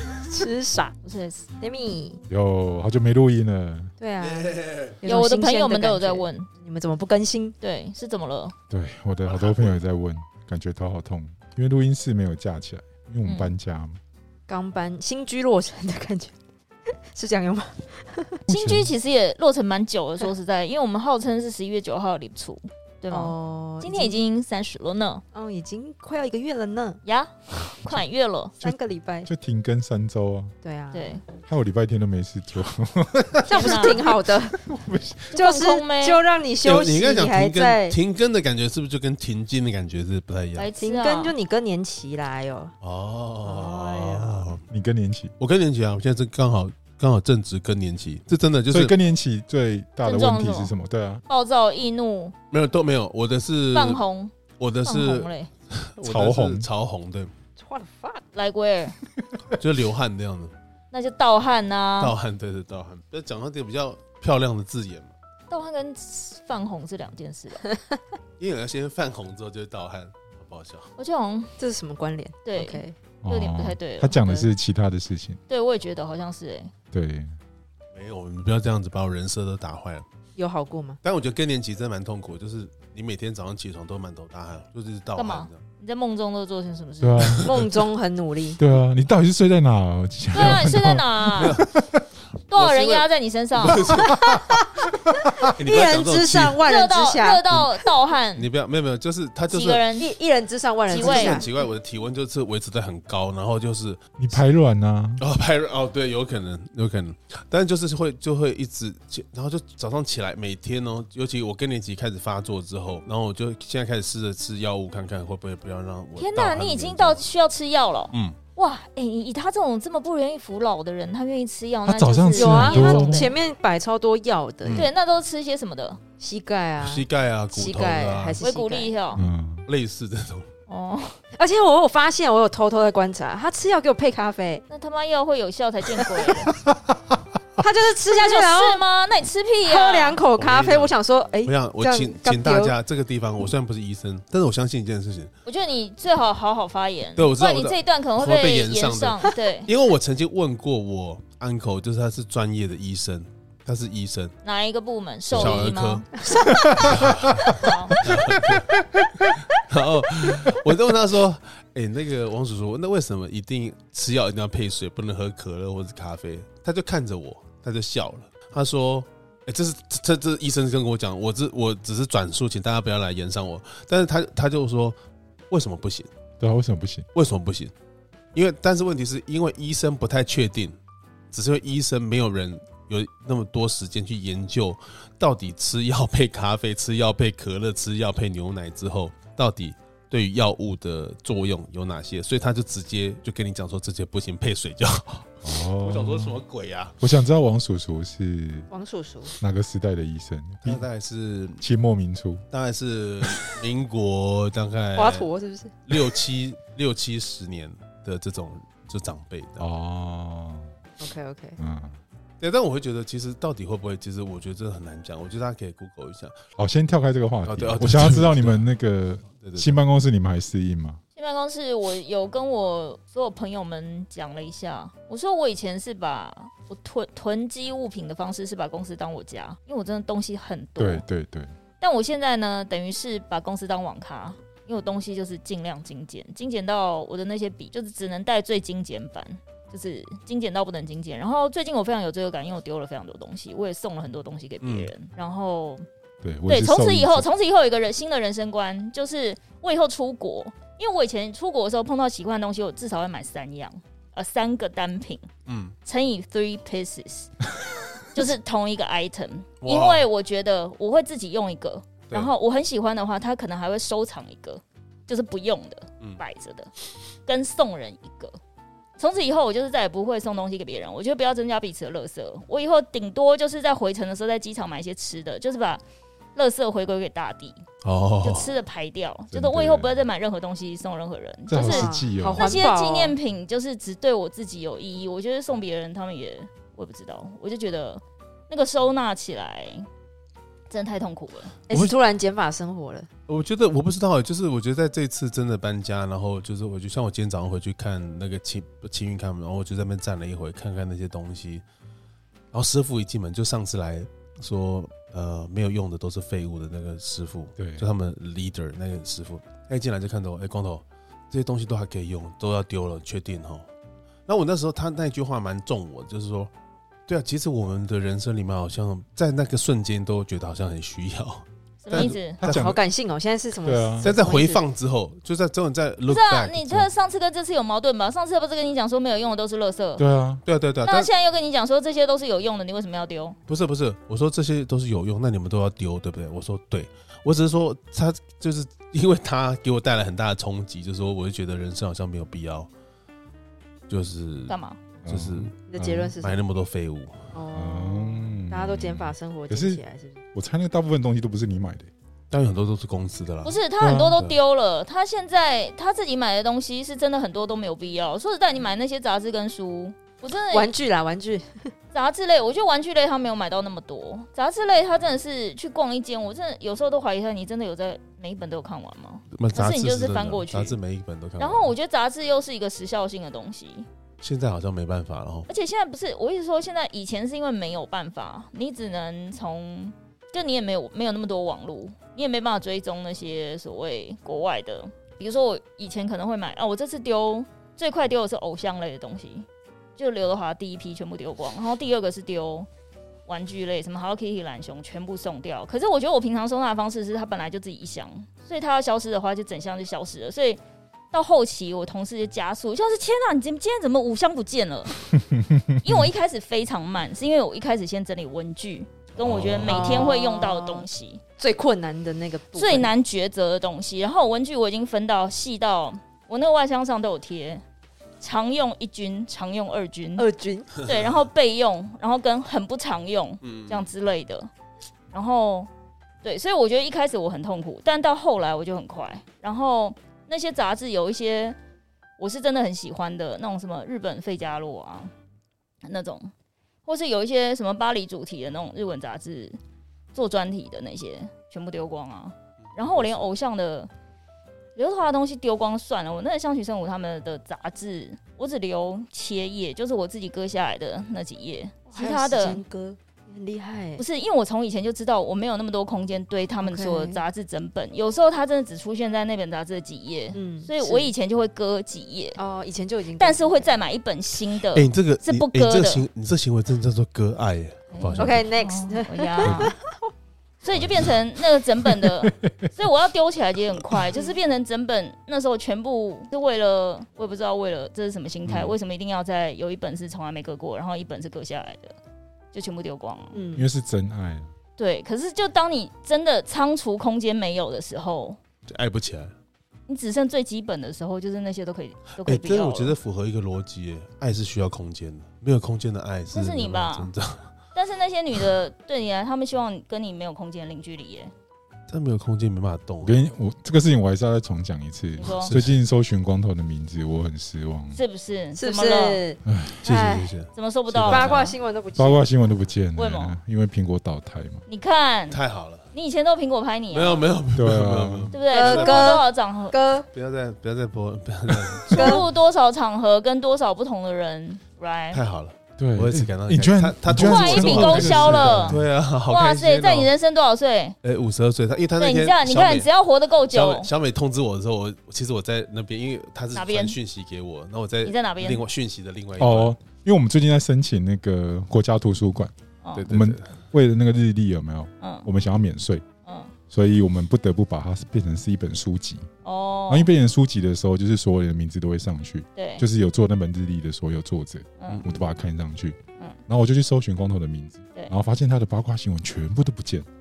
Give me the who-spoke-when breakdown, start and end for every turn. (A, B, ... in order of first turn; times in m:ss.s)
0:00.2-0:00.9 A
0:01.0-0:01.5 B
0:01.6-0:02.2 A
0:02.3-0:03.9 C
0:04.0-0:07.6 A
0:04.2-0:04.9 D
0:05.0-0:06.5 B
0:07.6-0:08.5 B
0:08.7-0:14.0 C
0:09.2-0:09.8 D
0:13.2-0:13.5 B
0:14.5-0:16.3 A
0:16.9-0:18.4 A
0:18.5-0:18.9 C
0:18.5-0:25.2 B
0:23.1-0:24.2 A
0:25.3-0:27.0 A
0:27.0-0:28.5 B
0:28.6-0:29.3 A
0:28.6-0:30.5 C
0:30.6-0:31.2 A
0:30.9-0:31.2 B
0:31.5-0:35.4 C
0:33.4-0:34.6 A
0:33.5-0:34.0 B
0:35.3-0:36.2 B
0:35.3-0:38.0 A
0:36.6-0:40.7 D
0:40.6-0:41.3 B
0:40.8-0:42.7 A
0:42.8-0:44.6 D
0:43.4-0:44.5 A
0:44.6-0:45.3 C
0:45.4-0:49.0 D
0:48.7-0:51.2 C
0:50.0-0:50.7 B
0:51.3-0:52.3 B
0:52.5-0:54.0 D
0:53.7-0:54.3 B
0:54.6-0:57.3 D
0:54.8-0:55.5 B
0:56.0-0:56.7 C
0:57.6-0:58.2 A
0:58.3-0:59.0 B
0:59.5-1:00.5 D
1:00.9-1:02.1 B
1:02.0-1:05.1 D
1:05.5-1:07.7 B
1:08.4-1:10.9 D
1:11.0-1:11.6 B
1:11.6-1:13.0 A
1:12.4-1:14.5 B
1:13.2-1:15.4 C
1:15.5-1:16.7 B
1:16.9-1:17.3 C
1:17.9-1:20.0 D
1:20.4-1:21.0 A
1:21.0-1:25.6 D
1:25.2-1:27.4 B
1:27.0-1:27.7 C
1:27.4-1:28.6 A
1:28.6-1:32.0 C
1:30.3-1:31.6 B
1:31.4-1:31.7 D
1:32.5-1:33.9 B
1:32.5-1:34.2 D
1:34.0-1:35.5 C
1:34.1-1:34.6 A
1:35.4-1:37.8 A
1:35.4-1:36.6 D
1:36.6-1:38.5 B
1:38.4-1:39.8 D
1:39.5-1:40.1 B
1:40.0-1:41.6 A
1:40.9-1:41.4 B
1:40.9-1:44.4 D
1:44.2-1:45.2 C
1:45.2-1:57.2 D
1:56.2-2:03.4 B
2:01.8-2:03.4 C
2:02.3-2:04.9 A
2:04.6-2:04.9 D
2:04.7-2:06.0 B
2:06.2-2:09.0 A
2:06.8-2:08.4 D
2:08.4-2:09.2 B
2:09.1-2:09.6 C
2:09.6-2:10.5 D
2:10.7-2:11.2 B
2:11.3-2:14.6 A
2:14.7-2:16.5 B
2:16.7-2:17.2 C
2:17.6-2:18.8 A
2:18.1-2:20.2 B
2:19.6-2:22.7 A
2:20.4-2:25.3 D
2:25.4-2:29.7 B
2:27.2-2:34.3 D
2:34.4-2:36.0 B
2:35.3-2:36.2 D
2:36.2-2:36.9 A
2:36.6-2:37.5 C
2:36.8-2:38.8 D
2:37.5-2:38.0 B
2:38.0-2:39.2 C
2:39.5-2:55.0 D
2:55.5-2:56.1 D
2:56.4-2:57.1 C
2:57.1-2:57.7 D
2:58.3-3:00.8 D
3:01.3-3:17.0 D
3:15.4-3:16.4 C
3:17.0-3:18.7 C
3:18.7-3:19.4 A
3:19.4-3:20.8 C
3:20.6-3:21.6 D
3:21.6-3:22.4 C
3:22.5-3:25.3 D
3:25.0-3:26.1 A
3:25.9-3:29.7 D
3:29.6-3:30.7 C
3:31.0-3:31.6 A
3:31.6-3:32.0 C
3:32.4-3:36.4 D
3:36.6-3:41.0 C
3:37.4-3:38.6 D
3:39.4-3:39.7 D
3:41.2-3:51.0 B
3:50.8-3:51.5 C
3:51.8-4:05.8 B
4:04.6-4:04.9 D
4:06.2-4:07.3 C
4:06.5-4:15.3 B
4:15.4-4:15.7 D
4:15.8-4:17.4 B
4:18.1-4:26.7 B
4:19.6-4:20.1 D
4:27.2-4:28.4 B
4:29.0-4:35.8 B
4:36.4-4:37.6 B
4:37.8-4:38.5 D
4:38.2-4:49.9 B
4:39.3-4:40.0 C
4:41.5-4:42.6 C
4:41.5-4:43.2 A
4:50.7-4:51.6 B
4:51.7-4:53.1 A
4:53.3-5:01.6 D
5:02.5-5:13.6 D
5:07.6-5:07.8 C
5:14.3-5:16.5 D
5:17.1-5:22.7 D
5:21.8-5:22.4 B
5:21.9-5:22.8 C
5:22.4-5:24.6 A
5:23.6-5:24.1 C
5:24.0-5:26.9 D
5:26.1-5:30.0 B
5:30.0-5:30.4 C
5:30.4-5:31.1 D
5:30.8-5:33.4 B
5:33.5-5:42.7 D
5:43.9-5:44.6 D
5:44.5-5:44.8 B
5:45.0-5:46.1 C
5:45.1-5:45.5 D
5:45.7-5:46.4 A
5:46.2-5:47.3 D
5:47.3-5:50.2 A
5:47.5-5:49.8 C
5:50.3-5:51.9 C
5:52.3-5:54.4 D
5:53.4-6:00.7 B
6:00.5-6:01.7 A
6:01.9-6:10.8 B
6:09.3-6:11.7 D
6:11.4-6:13.8 B
6:14.2-6:15.5 D
6:15.5-6:29.4 B
6:30.0-6:32.7 B
6:33.3-6:40.6 B
6:41.1-6:45.0 B
6:45.1-6:46.1 C
6:45.8-6:51.2 B
6:49.2-6:50.1 D
6:49.6-6:50.9 A
6:51.4-6:52.9 A
6:52.6-6:57.6 B
6:58.2-7:00.3 B
7:00.2-7:00.7 A
7:00.8-7:01.2 D
7:00.8-7:04.5 B
7:03.4-7:03.9 D
7:05.1-7:05.7 B
7:06.2-7:11.6 B
7:12.2-7:15.1 B
7:15.8-7:16.3 B
7:16.8-7:19.6 B
7:20.1-7:23.9 B
7:22.8-7:23.2 D
7:24.8-7:32.6 B
7:31.9-7:34.0 A
7:34.0-7:42.4 B
7:36.6-7:37.2 A
7:40.3-7:41.1 A
7:42.4-7:43.7 A
7:43.2-7:46.0 B
7:44.7-7:48.5 D
7:47.9-7:49.7 B
7:48.2-7:50.1 A
7:50.6-8:02.0 B
7:51.8-7:52.7 C
7:58.4-7:58.8 D
8:02.5-8:03.4 B
8:03.3-8:03.7 A
8:03.5-8:04.5 C
8:04.8-8:08.4 B
8:08.7-8:09.3 D
8:09.9-8:13.0 B
8:12.2-8:17.5 D
8:16.3-8:17.1 B
8:17.7-8:21.3 B
8:21.9-8:23.2 D
8:23.0-8:28.0 C
8:25.2-8:25.5 B
8:25.4-8:25.8 D
8:27.9-8:29.2 B
8:28.5-8:30.3 A
8:29.4-8:30.0 C
8:29.8-8:31.4 D
8:30.5-8:31.6 B
8:31.0-8:32.3 A
8:32.0-8:34.6 C
8:33.0-8:33.4 B
8:34.7-8:35.4 B
8:35.3-8:35.9 D
8:35.9-8:37.2 B
8:36.9-8:39.2 D
8:37.6-8:38.3 C
8:38.3-8:39.8 B
8:38.5-8:40.1 A
8:40.1-8:42.2 D
8:41.9-8:45.2 B
8:41.9-8:42.2 A
8:45.1-8:50.1 D
8:45.8-8:48.9 C
8:47.2-8:50.9 B
8:51.0-8:52.9 D
8:52.0-8:53.9 B
8:53.5-8:59.8 D
8:56.5-8:57.0 B
8:58.0-8:58.6 B
8:59.4-9:02.5 C
9:03.0-9:03.5 D
9:03.1-9:06.0 C
9:05.0-9:05.3 B
9:06.2-9:06.5 B
9:06.7-9:09.3 C
9:09.4-9:10.1 B
9:09.9-9:20.0 C
9:12.5-9:12.8 B
9:14.8-9:15.0 B
9:14.9-9:15.2 D